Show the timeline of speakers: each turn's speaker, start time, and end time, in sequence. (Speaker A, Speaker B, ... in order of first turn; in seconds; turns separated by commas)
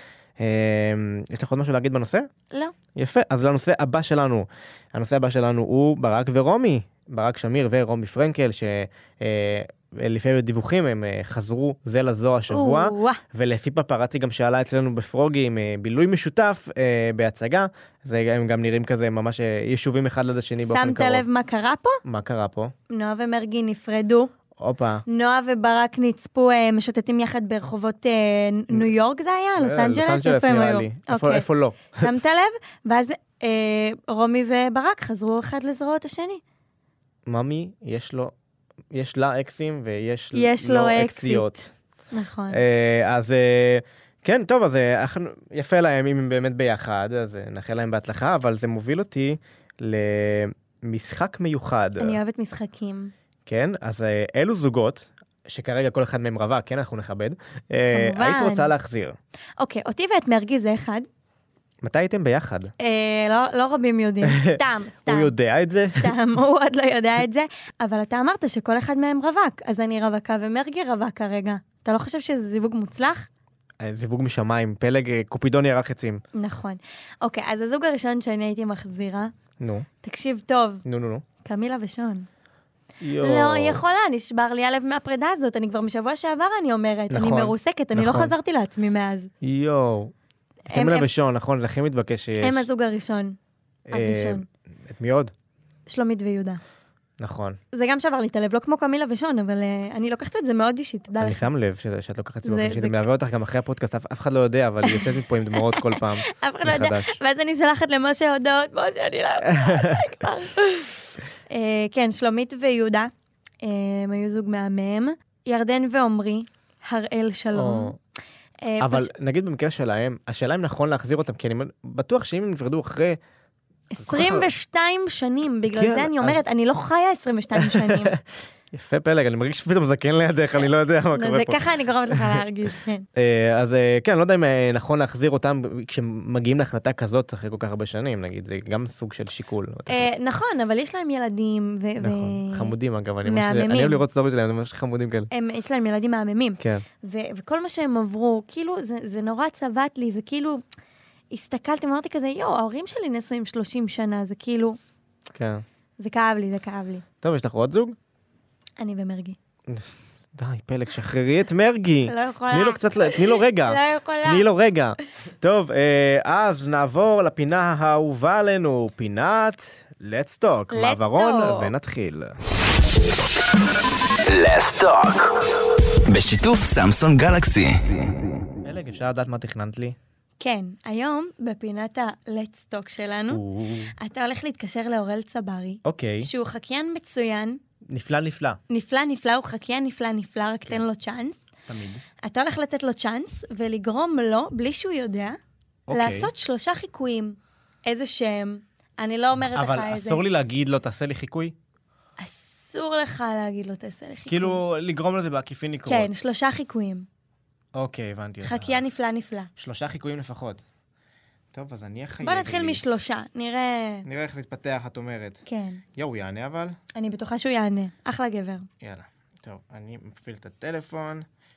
Speaker A: 0.4-2.2, Speaker A: 2.9-21.2, Speaker B: 12.5-13.2, Speaker B: 20.6-22.0, Speaker A: 22.0-22.7, Speaker B: 22.9-24.3, Speaker A: 24.6-25.0, Speaker B: 25.1-31.4, Speaker A: 29.6-32.1, Speaker B: 32.0-36.4, Speaker A: 37.2-38.3, Speaker A: 38.9-41.7, Speaker B: 40.3-42.6, Speaker A: 42.5-52.2, Speaker B: 52.0-53.1, Speaker A: 53.5-59.1, Speaker B: 57.9-58.7, Speaker B: 59.6-61.1, Speaker A: 61.8-62.7, Speaker B: 62.8-65.3, Speaker A: 64.2-66.2, Speaker B: 66.0-73.3, Speaker A: 73.8-76.2, Speaker B: 76.3-79.3, Speaker A: 79.6-79.9, Speaker B: 80.0-80.8, Speaker A: 80.8-81.2, Speaker B: 81.4-82.3, Speaker A: 83.0-83.8, Speaker B: 83.2-89.3, Speaker A: 87.1-88.3, Speaker A: 89.4-90.1, Speaker B: 90.7-91.1, Speaker A: 90.7-92.7, Speaker B: 92.4-93.3, Speaker A: 93.9-95.3, Speaker B: 93.9-94.5, Speaker B: 95.9-96.6, Speaker A: 97.2-97.6, Speaker B: 97.7-101.5, Speaker A: 101.2-107.2, Speaker B: 102.4-103.0, Speaker B: 104.8-110.8, Speaker A: 109.5-110.0, Speaker B: 111.5-113.1, Speaker B: 113.6-117.9, Speaker A: 117.5-118.0, Speaker B: 118.6-119.1, Speaker A: 118.8-123.2, Speaker B: 123.9-128.1, Speaker A: 124.0-124.5, Speaker A: 125.7-126.4, Speaker A: 127.5-128.2, Speaker A: 128.7-132.4, Speaker B: 130.6-133.1, Speaker A: 133.2-140.2, Speaker B: 139.9-144.0, Speaker A: 142.0-145.3, Speaker B: 145.3-150.6, Speaker B: 151.3-154.8, Speaker A: 155.3-155.6, Speaker B: 156.0-157.0, Speaker A: 157.2-157.9, Speaker B: 158.8-159.4, Speaker A: 159.7-172.4, Speaker B: 162.1-164.5, Speaker B: 170.7-171.7, Speaker C: 174.2-178.0, Speaker A: 178.6-180.0, Speaker B: 180.4-183.4, Speaker A: 183.3-183.9, Speaker B: 184.0-187.6, Speaker A: 185.8-186.3, Speaker A: 187.9-188.6, Speaker B: 188.7-191.4, Speaker A: 191.7-192.0, Speaker B: 192.2-195.4, Speaker A: 195.9-196.3, Speaker B: 195.9-200.2, Speaker A: 199.5-201.5, Speaker B: 202.2-204.6, Speaker A: 204.3-206.1, Speaker B: 205.8-207.1, Speaker A: 207.7-208.8, Speaker B: 208.4-209.5, Speaker A: 209.6-210.6, Speaker A: 211.5-212.8, Speaker B: 212.2-214.1, Speaker A: 214.0-215.4, Speaker B: 215.4-215.8, Speaker A: 215.9-216.8, Speaker B: 216.9-218.7, Speaker A: 218.8-221.2